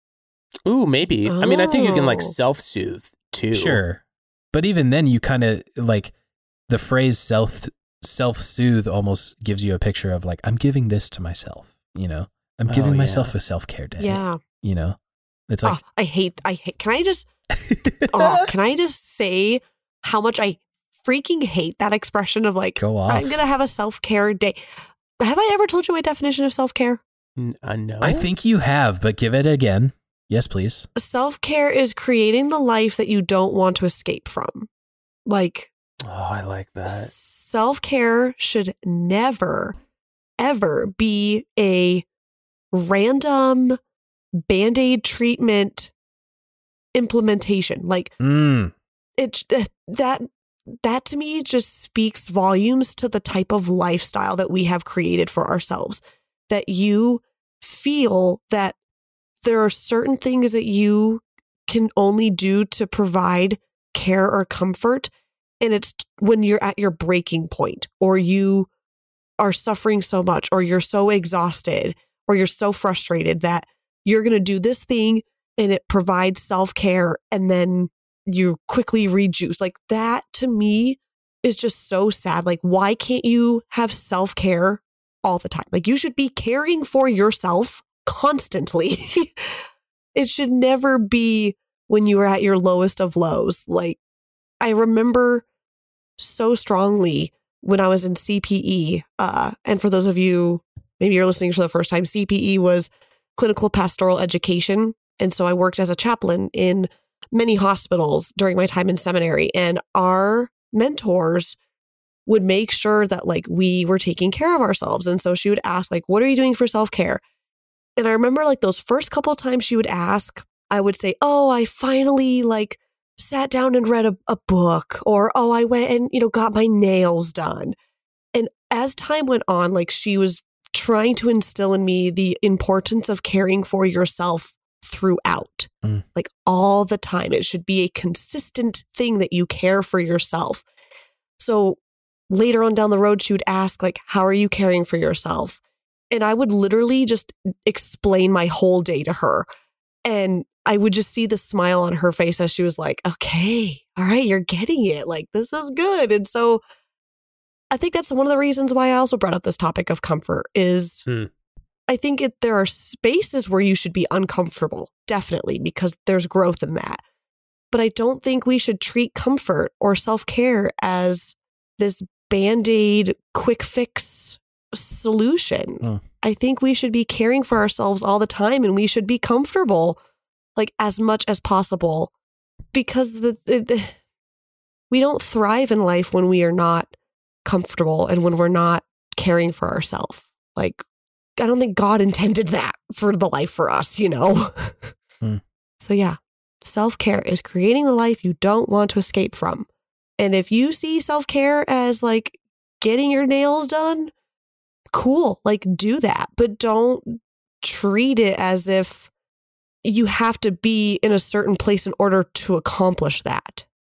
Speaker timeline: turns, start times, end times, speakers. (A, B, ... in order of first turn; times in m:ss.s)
0:00.6-0:03.8 A
0:01.2-0:02.3 B
0:03.5-0:04.0 C
0:04.5-0:06.1 C
0:06.7-0:15.0 C
0:12.7-0:13.3 A
0:14.0-0:14.4 B
0:15.5-0:15.8 C
0:15.6-0:17.3 B
0:17.6-0:18.5 C
0:18.1-0:24.6 B
0:22.8-0:23.4 C
0:25.2-0:27.0 B
0:27.4-0:28.3 A
0:28.0-0:30.9 C
0:31.0-0:34.7 B
0:35.2-0:35.7 B
0:36.0-0:37.1 A
0:36.8-0:39.8 B
0:40.4-0:42.0 B
0:42.7-0:43.8 B
0:44.4-0:45.9 B
0:46.9-0:48.1 B
0:48.2-0:48.7 C
0:49.2-0:50.3 B
0:50.8-0:58.8 B
0:59.4-1:08.7 B
1:09.4-1:29.5 B
1:30.1-1:34.0 B
1:34.6-1:35.4 B
1:36.2-1:51.6 B
1:52.3-1:57.2 B
1:58.0-2:07.7 B
2:08.3-2:20.6 B
2:21.4-2:21.8 B
2:22.3-2:25.6 B
2:26.1-2:29.5 B
2:30.0-2:36.6 B
2:37.7-2:41.0 B
2:41.9-2:47.0 B
2:47.7-3:00.0 B
3:00.6-3:02.1 B
3:02.7-3:04.0 B
3:04.9-3:06.9 B
3:07.4-3:10.8 B
3:11.4-3:14.9 B
3:15.8-3:19.7 B
3:20.2-3:24.1 B
3:24.9-3:29.1 B
3:29.8-3:33.6 B